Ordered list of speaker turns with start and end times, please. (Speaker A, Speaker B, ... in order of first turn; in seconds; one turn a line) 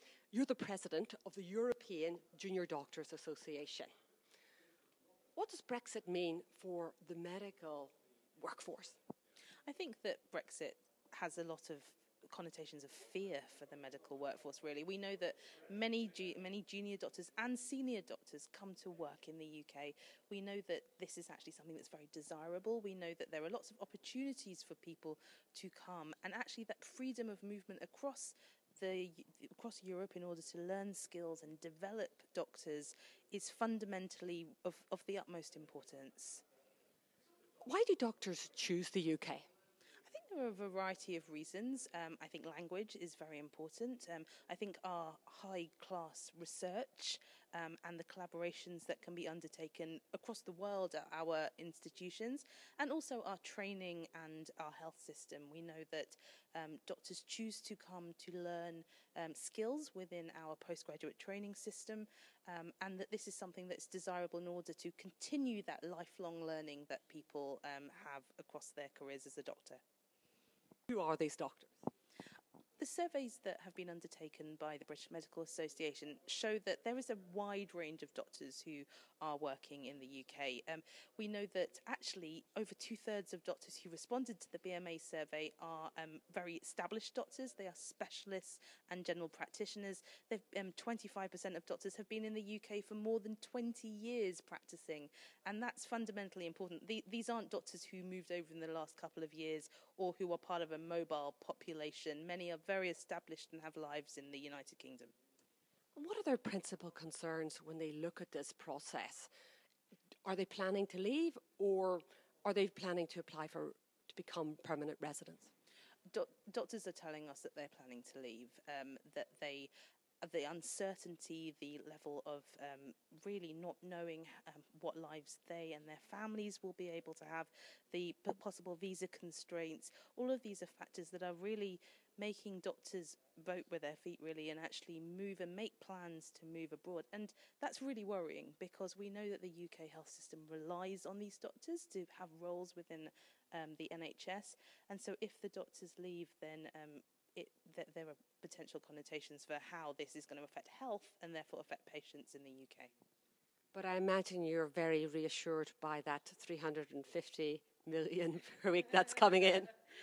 Speaker A: 0.3-3.9
Speaker A: 5.3-9.0
Speaker B: 9.7-36.4
Speaker A: 37.6-39.5
Speaker B: 40.0-69.8
Speaker A: 70.9-71.8
Speaker B: 72.8-105.1
Speaker A: 105.9-109.3
Speaker A: 110.2-115.5
Speaker B: 116.1-152.9
Speaker A: 153.7-159.7